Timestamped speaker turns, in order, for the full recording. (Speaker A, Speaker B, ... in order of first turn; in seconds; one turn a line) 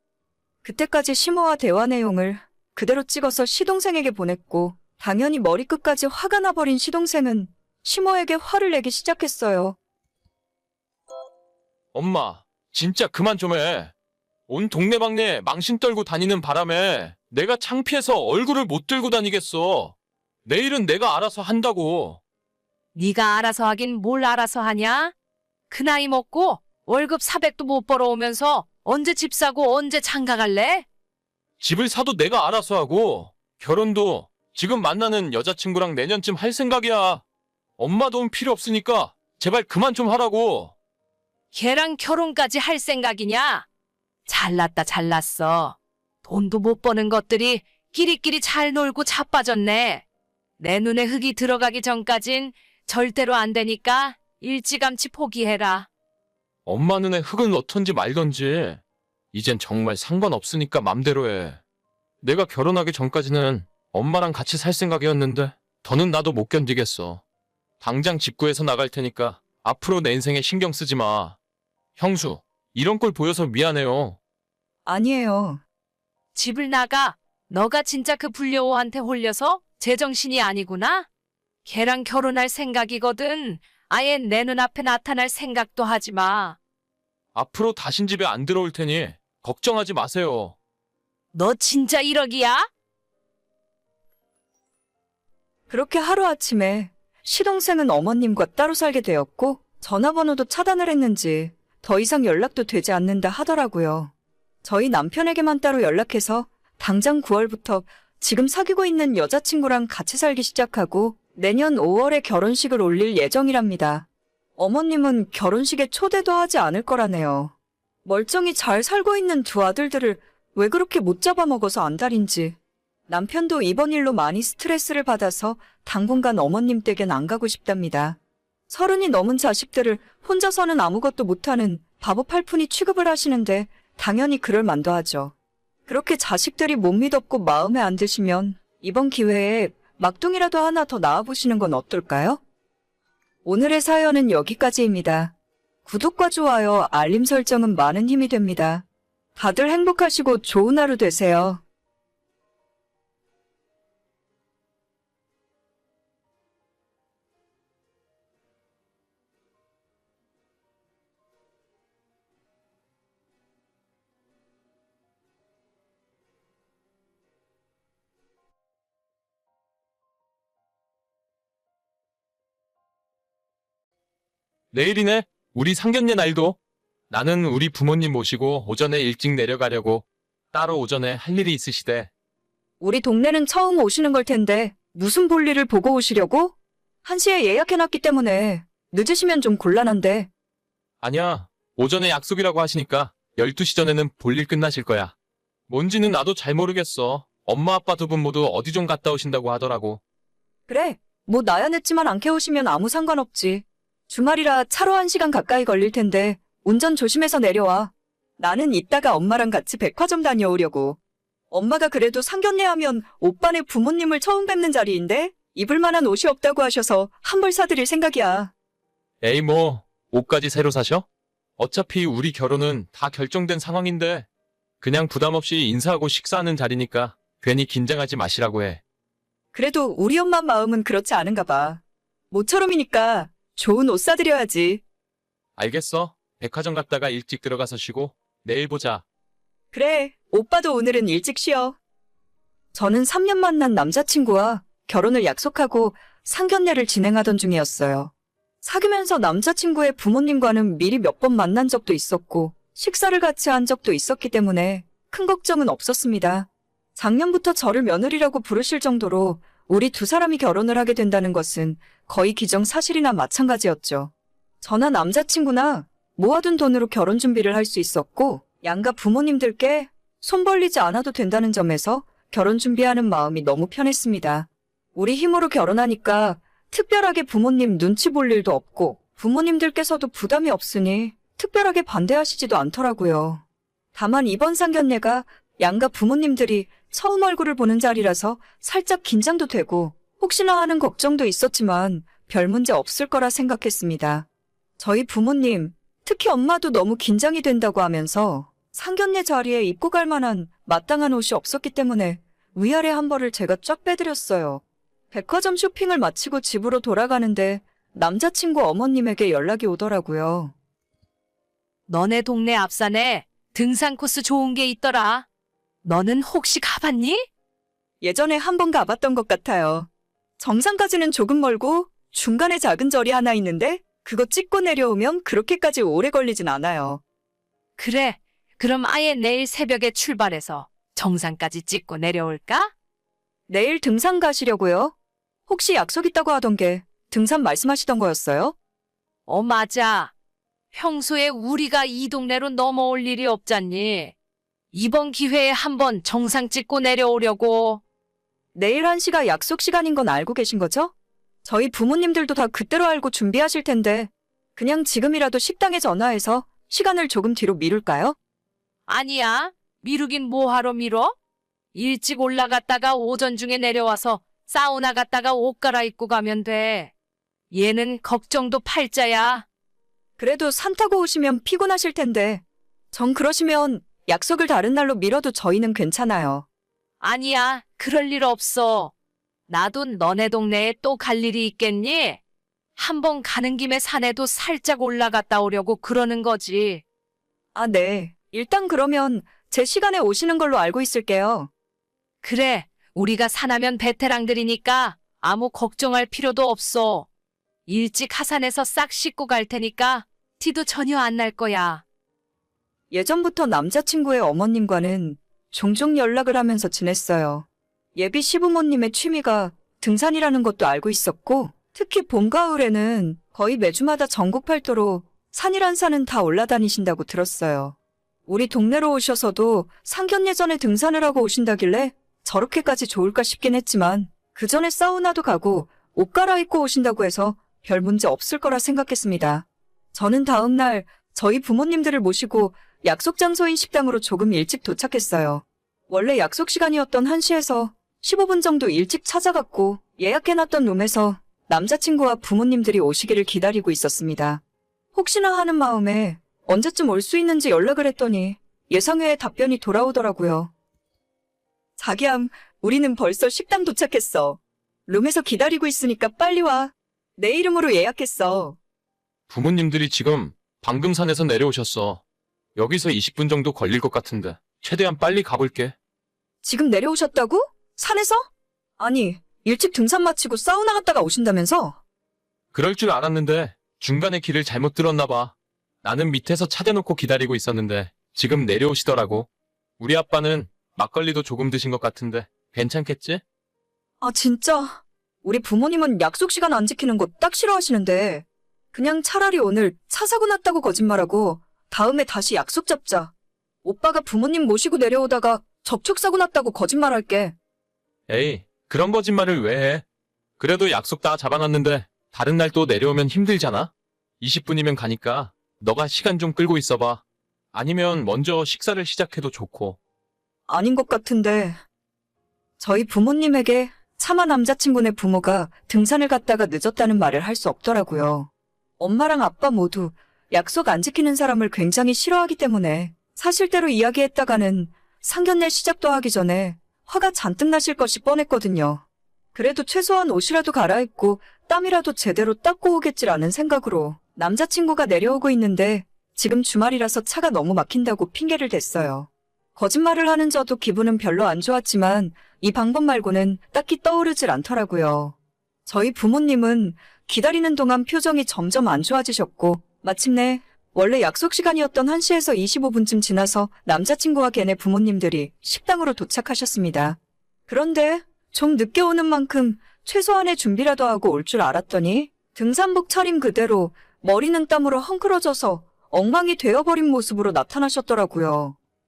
Speaker A: 0.6-9.8
Speaker B: 11.9-13.9
Speaker B: 14.5-19.9
Speaker B: 20.4-22.2
Speaker C: 22.9-25.1
Speaker C: 25.7-30.9
Speaker B: 31.6-37.2
Speaker B: 37.8-40.7
Speaker C: 41.5-43.6
Speaker C: 44.3-50.0
Speaker C: 50.6-55.9
Speaker B: 56.6-58.8
Speaker B: 59.3-61.6
Speaker B: 62.2-67.2
Speaker B: 67.8-71.4
Speaker B: 72.0-74.2
Speaker A: 74.8-75.6
Speaker C: 76.3-81.1
Speaker C: 81.6-86.6
Speaker B: 87.3-90.5
Speaker C: 91.3-92.7
Speaker A: 95.7-104.1
Speaker A: 104.6-114.0
Speaker A: 114.6-117.5
Speaker A: 118.0-122.6
Speaker A: 123.1-128.2
Speaker A: 128.7-135.3
Speaker A: 135.9-142.4
Speaker A: 143.4-145.3
Speaker A: 145.8-148.8
Speaker A: 149.3-151.6
Speaker B: 174.7-176.6
Speaker B: 177.1-182.1
Speaker A: 182.8-190.3
Speaker B: 191.0-195.1
Speaker B: 195.7-200.0
Speaker A: 200.7-211.0
Speaker A: 211.5-218.5
Speaker B: 219.2-221.1
Speaker B: 221.6-224.2
Speaker B: 224.8-228.8
Speaker A: 229.5-234.8
Speaker B: 235.6-239.0
Speaker A: 239.7-241.8
Speaker A: 242.7-248.1
Speaker A: 248.6-283.4
Speaker A: 283.9-294.2
Speaker A: 294.8-310.5
Speaker C: 311.9-315.2
Speaker C: 315.8-317.3
Speaker A: 318.0-327.0
Speaker C: 327.8-332.7
Speaker A: 333.5-334.9
Speaker A: 335.5-338.5
Speaker C: 339.3-340.1
Speaker C: 340.7-344.1
Speaker C: 344.7-347.8
Speaker A: 348.5-350.9
Speaker A: 351.4-358.1
Speaker C: 358.9-361.1
Speaker C: 361.7-366.9
Speaker C: 367.5-369.4
Speaker A: 370.2-376.4
Speaker C: 377.0-378.9
Speaker C: 379.5-382.2
Speaker C: 382.8-386.8
Speaker A: 387.5-391.5
Speaker C: 392.2-397.1
Speaker C: 397.7-401.8
Speaker A: 402.9-417.8
Speaker A: 418.3-444.4
Speaker A: 444.9-450.5
Speaker A: 451.8-458.6
Speaker B: 459.3-462.0
Speaker B: 462.6-465.7
Speaker A: 466.4-468.3
Speaker A: 468.8-471.8
Speaker B: 472.5-479.3
Speaker B: 479.8-483.2
Speaker A: 484.0-493.1
Speaker A: 493.6-497.3
Speaker B: 498.1-499.8
Speaker B: 500.4-507.0
Speaker B: 507.5-509.8
Speaker A: 510.5-511.6
Speaker A: 512.6-528.8
Speaker A: 529.3-545.1
Speaker A: 545.6-568.5